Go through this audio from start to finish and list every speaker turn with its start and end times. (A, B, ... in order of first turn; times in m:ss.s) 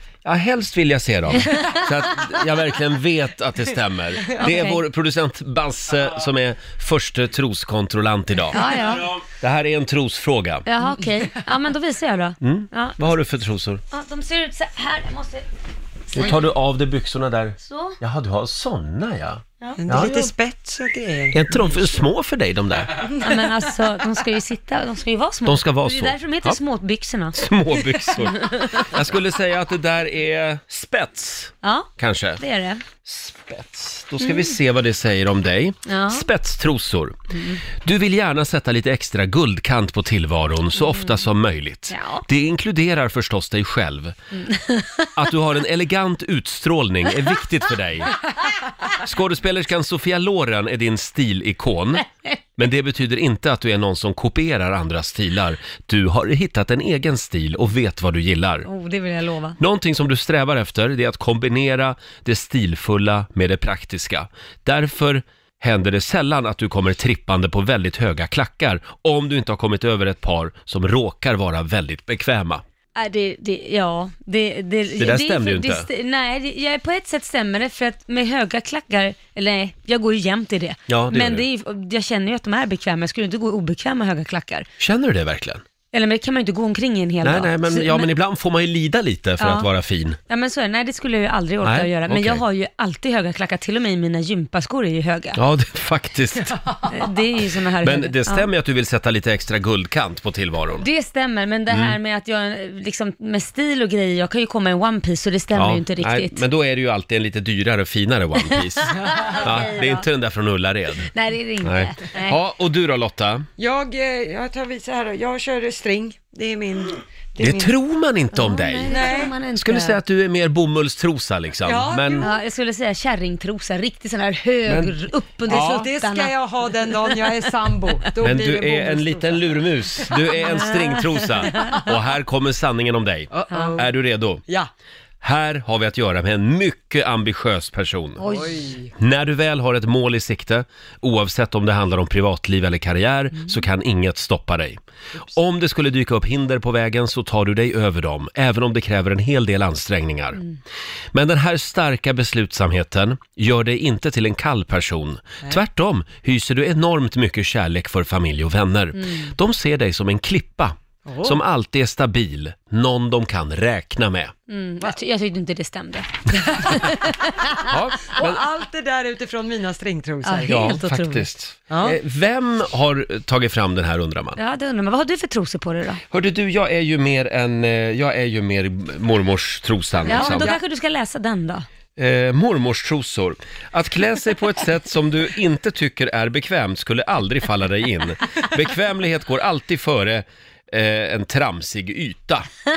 0:00.2-0:10.7 A
0:01.4-0:01.9 B
0:04.4-0:04.8 B
0:08.5-0:09.1 B
0:10.7-0:13.0 B
0:12.4-0:13.8 A
0:13.9-0:15.5 B
0:16.1-0:16.5 B
0:16.1-0:20.3 A
0:17.6-0:18.0 B
0:19.6-0:20.1 B
0:19.8-0:21.4 C
0:21.3-0:23.1 A
0:23.2-0:27.4 B
0:25.4-0:26.6 A
0:27.3-0:32.4 A
0:28.2-0:28.9 B
0:31.6-0:32.8 B
0:33.0-0:44.2 A
0:34.2-0:34.6 B
0:35.9-0:36.3 B
0:37.3-0:37.6 B
0:40.9-0:41.2 B
0:41.9-0:42.2 B
0:44.3-0:45.1 B
0:45.2-0:48.2 A
0:48.8-0:58.7 A
0:58.6-0:59.6 B
0:59.6-1:12.6 A
1:13.0-1:24.7 B
1:15.0-1:15.9 A
1:20.9-1:21.5 A
1:24.8-1:25.6 A
1:25.9-1:28.1 B
1:27.2-1:30.2 A
1:29.4-1:29.7 B
1:30.3-1:35.4 B
1:31.6-1:32.4 A
1:35.4-1:36.8 A
1:36.9-1:38.5 B
1:37.8-1:40.9 A
1:40.8-1:46.4 B
1:41.7-1:42.0 A
1:45.5-1:51.1 A
1:48.4-1:50.1 B
1:51.1-1:52.4 B
1:51.6-1:53.5 A
1:53.6-1:57.7 C
1:57.4-2:02.3 A
1:58.3-2:00.0 B
1:58.9-1:59.4 C
2:01.6-2:02.3 C
2:02.2-2:07.3 B
2:04.7-2:05.0 A
2:05.5-2:09.5 C
2:05.5-2:05.8 A
2:08.2-2:14.4 A
2:10.4-2:11.8 B
2:11.2-2:11.7 C
2:13.3-2:13.9 C
2:13.5-2:13.8 B
2:15.2-2:18.3 A
2:18.2-2:18.6 B
2:18.3-2:18.9 C
2:18.9-2:30.4 A
2:31.1-2:44.3 A
2:39.0-2:39.3 B
2:41.1-2:41.4 C
2:44.5-2:47.8 B
2:47.7-2:48.4 A
2:48.0-2:50.8 C
2:50.2-2:51.3 B
2:50.5-2:54.4 A
2:51.7-2:52.0 C
2:54.4-2:56.0 B
2:56.1-3:00.6 A
3:00.0-3:01.7 B
3:00.1-3:00.6 C
3:02.0-3:12.5 A